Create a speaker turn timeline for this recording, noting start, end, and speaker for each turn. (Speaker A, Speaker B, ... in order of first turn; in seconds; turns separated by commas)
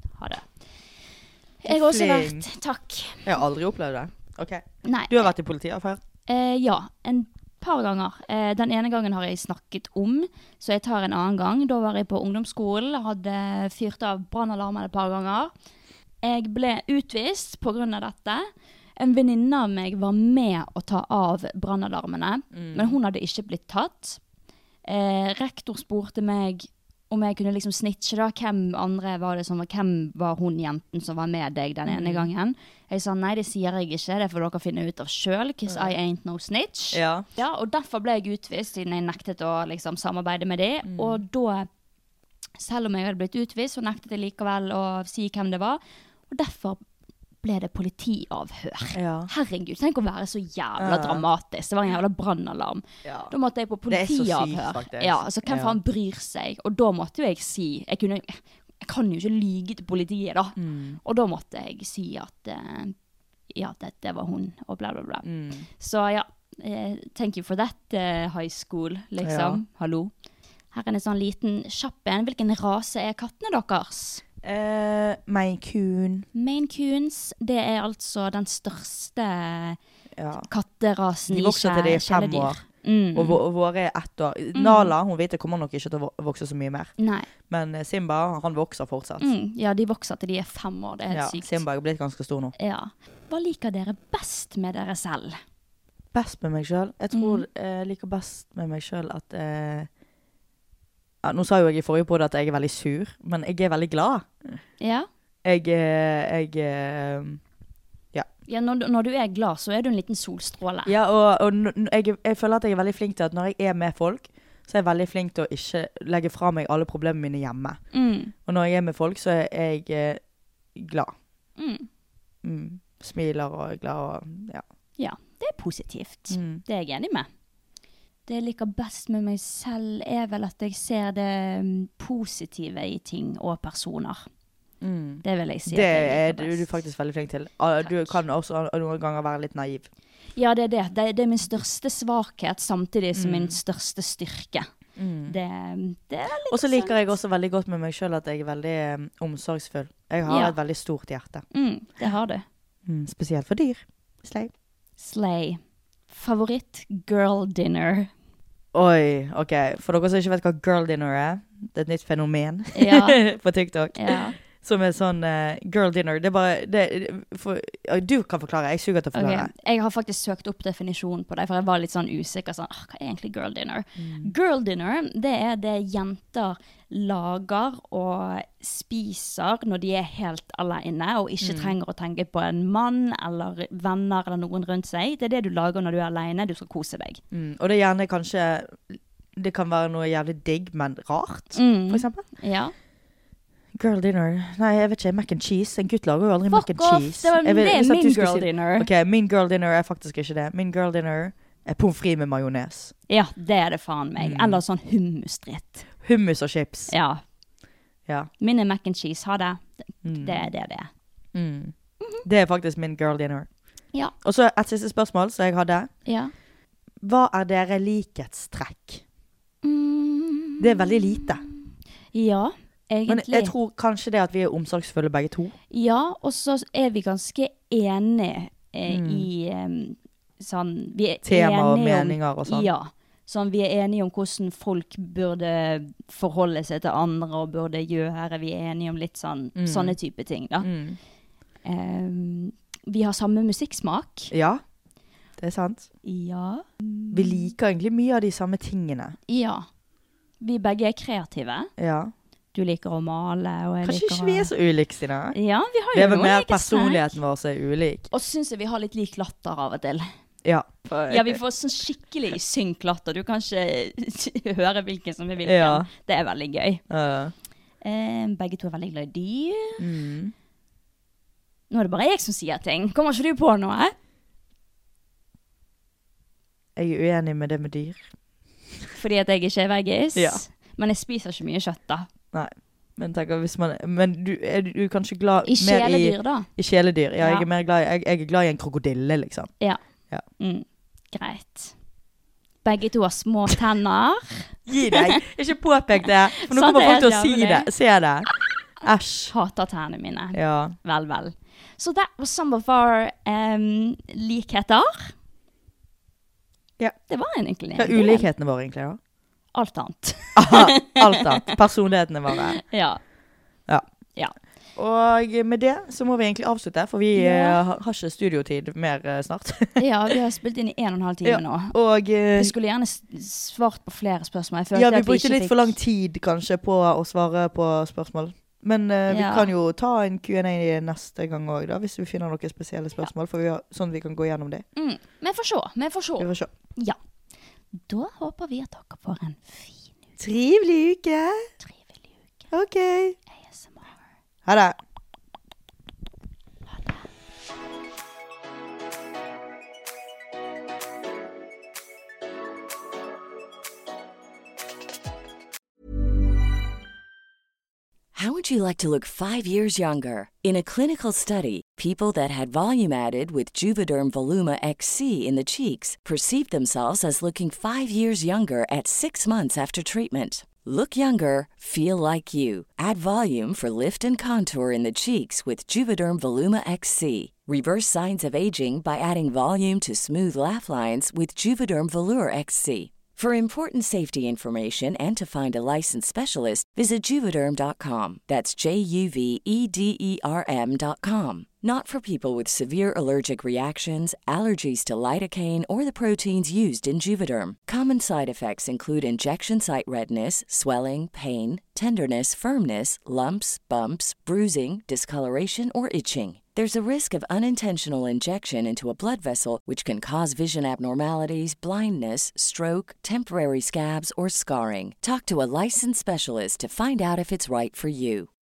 Speaker A: 0.2-0.5, Speaker A: 1.6-3.3, Speaker B: 1.6-2.5, Speaker B: 3.2-6.0, Speaker A: 4.8-5.3, Speaker A: 6.3-15.5, Speaker A: 16.2-18.5, Speaker A: 19.0-24.2, Speaker B: 22.5-22.9, Speaker A: 24.9-41.7, Speaker B: 31.9-32.3, Speaker B: 35.7-35.9, Speaker B: 36.9-37.3, Speaker B: 40.9-41.2, Speaker A: 42.6-46.8, Speaker A: 47.4-62.9, Speaker B: 49.0-49.3, Speaker B: 50.8-51.2, Speaker B: 53.0-53.3, Speaker B: 53.9-55.8, Speaker B: 60.6-61.0, Speaker A: 63.5-65.2, Speaker B: 65.2-65.7, Speaker A: 65.8-70.1, Speaker B: 69.2-69.6, Speaker A: 70.7-74.2, Speaker B: 74.4-76.3, Speaker A: 76.3-79.8, Speaker B: 80.2-80.5, Speaker A: 80.5-83.4, Speaker B: 81.3-82.6, Speaker B: 83.2-86.9, Speaker A: 84.5-84.9, Speaker A: 87.0-87.3, Speaker B: 87.5-89.3, Speaker A: 89.2-91.6, Speaker B: 91.1-92.5, Speaker A: 92.6-95.4, Speaker B: 96.1-99.9, Speaker A: 97.1-97.5, Speaker B: 101.2-104.5, Speaker A: 104.8-105.1, Speaker B: 105.5-107.4, Speaker A: 108.5-110.9, Speaker B: 110.9-117.8, Speaker A: 117.9-118.3, Speaker B: 118.5-120.2, Speaker B: 120.8-121.1, Speaker A: 121.6-121.9, Speaker B: 122.4-124.6, Speaker A: 125.0-127.3, Speaker B: 126.3-126.6, Speaker A: 128.3-134.3, Speaker B: 134.8-139.9, Speaker A: 135.2-136.7, Speaker A: 137.8-138.2, Speaker A: 140.4-144.7, Speaker B: 143.2-143.6, Speaker B: 145.0-145.4, Speaker A: 145.3-147.0, Speaker B: 146.5-151.4, Speaker A: 150.3-150.6, Speaker A: 151.5-152.4, Speaker B: 152.9-154.5, Speaker A: 155.0-158.1, Speaker B: 158.7-169.5, Speaker A: 162.8-163.2, Speaker A: 164.0-164.4, Speaker A: 169.2-187.2, Speaker B: 174.0-174.3, Speaker B: 181.4-181.8, Speaker B: 187.3-192.2, Speaker A: 191.6-192.7, Speaker B: 193.8-202.9, Speaker A: 196.5-198.9, Speaker A: 203.1-205.9, Speaker B: 204.2-204.6, Speaker B: 206.0-206.9, Speaker A: 206.9-207.2, Speaker A: 208.4-210.9, Speaker B: 210.0-210.5, Speaker B: 211.3-211.7, Speaker B: 212.2-213.5, Speaker B: 214.2-215.9, Speaker A: 216.1-216.3, Speaker B: 217.0-219.0, Speaker A: 219.6-221.6, Speaker B: 220.6-221.4, Speaker A: 222.1-223.5, Speaker B: 223.1-225.6, Speaker A: 225.7-240.7, Speaker B: 228.9-229.3, Speaker B: 231.2-232.7, Speaker B: 239.6-240.0, Speaker B: 240.6-241.0, Speaker A: 241.7-244.3, Speaker B: 244.3-244.6, Speaker B: 245.4-245.9, Speaker A: 246.0-247.5, Speaker B: 247.1-249.2, Speaker A: 249.3-249.7, Speaker A: 250.4-251.7, Speaker B: 251.8-252.1, Speaker A: 252.5-254.5, Speaker B: 253.8-255.4, Speaker A: 255.3-257.1, Speaker B: 255.9-258.1, Speaker A: 258.1-260.1, Speaker B: 260.4-261.4, Speaker A: 261.1-266.8, Speaker B: 265.4-265.9, Speaker B: 266.9-267.3, Speaker A: 267.8-269.8, Speaker B: 269.8-270.3, Speaker A: 271.7-273.9, Speaker B: 276.8-278.1, Speaker A: 278.9-282.1, Speaker B: 280.1-280.4, Speaker B: 282.3-289.5, Speaker A: 285.4-286.5, Speaker A: 287.2-287.5, Speaker A: 290.4-291.8, Speaker A: 292.6-295.2, Speaker B: 294.7-298.3, Speaker A: 296.3-297.7, Speaker B: 298.8-299.3, Speaker A: 299.3-305.1, Speaker B: 300.3-300.8, Speaker A: 307.1-308.3, Speaker B: 307.8-309.0, Speaker A: 309.5-311.6, Speaker B: 310.4-312.6, Speaker A: 312.6-313.0, Speaker B: 314.8-320.1, Speaker A: 317.1-317.6, Speaker A: 319.8-321.8, Speaker B: 321.2-322.5, Speaker A: 322.4-325.7, Speaker B: 324.7-334.6, Speaker A: 329.1-329.5, Speaker A: 334.8-337.0, Speaker B: 336.2-336.5, Speaker A: 337.8-339.9, Speaker B: 340.2-341.5, Speaker A: 341.6-342.1, Speaker B: 342.5-343.2, Speaker A: 343.4-344.0, Speaker B: 344.4-344.8, Speaker A: 346.7-347.0, Speaker C: 358.1-418.3